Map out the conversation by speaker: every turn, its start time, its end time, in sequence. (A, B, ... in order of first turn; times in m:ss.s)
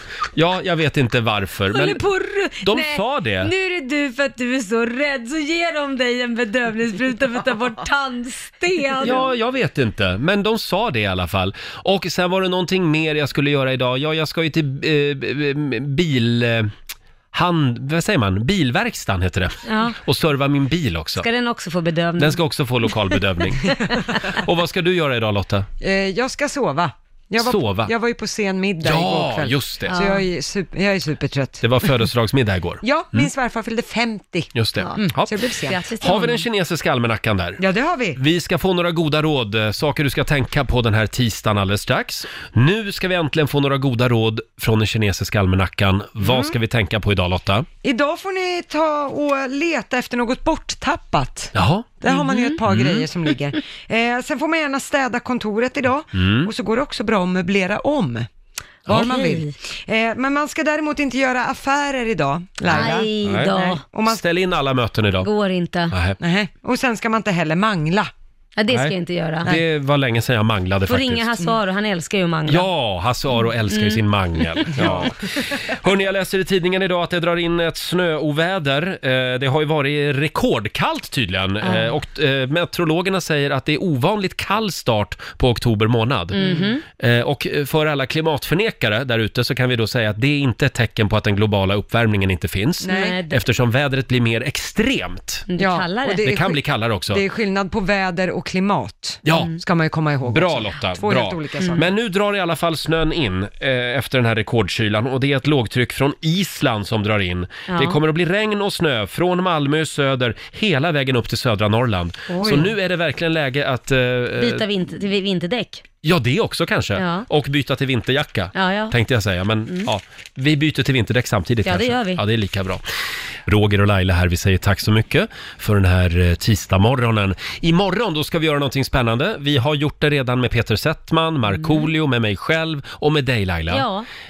0:00.3-0:02.0 A
0:01.7-0:09.3 B
0:02.6-0:03.5 A
0:09.0-0:16.7 A
0:17.3-0:21.3 A
0:19.6-0:20.0 B
0:21.2-0:22.4 B
0:22.2-0:25.7 A
0:25.8-0:31.6 C
0:27.4-0:27.9 A
0:28.8-0:30.0 A
0:29.9-0:30.2 B
0:31.6-0:33.3 A
0:32.8-0:35.8 C
0:34.5-0:35.3 A
0:35.6-0:36.4 B
0:36.0-0:37.6 A
0:37.6-0:38.2 C
0:38.1-0:47.7 A
0:46.2-0:46.5 C
0:47.8-0:58.3 C
0:51.5-0:52.0 A
0:52.1-0:52.6 B
0:52.6-0:53.0 A
0:56.1-0:56.5 A
0:58.9-1:04.2 C
0:58.9-0:59.5 B
1:02.7-1:03.8 B
1:02.8-1:05.3 A
1:05.2-1:05.9 B
1:05.9-1:06.2 A
1:06.2-1:08.1 C
1:08.6-1:09.5 B
1:08.7-1:11.4 A
1:10.9-1:12.7 B
1:12.5-1:26.4 A
1:13.7-1:14.0 B
1:14.6-1:15.1 B
1:21.6-1:21.9 B
1:26.3-1:26.8 B
1:26.4-1:26.7 C
1:27.0-1:35.4 A
1:32.8-1:33.2 C
1:32.9-1:33.4 B
1:35.5-1:36.2 B
1:35.6-1:41.9 C
1:36.2-1:37.2 A
1:39.2-1:39.6 A
1:39.3-1:39.6 B
1:40.3-1:54.6 A
1:47.7-1:48.0 B
1:52.3-1:52.7 B
1:54.4-1:55.8 B
1:56.0-2:02.8 A
1:57.0-1:57.2 B
1:58.5-1:58.9 B
2:01.6-2:02.2 B
2:03.5-2:13.8 A
2:11.5-2:11.9 B
2:13.7-2:14.0 B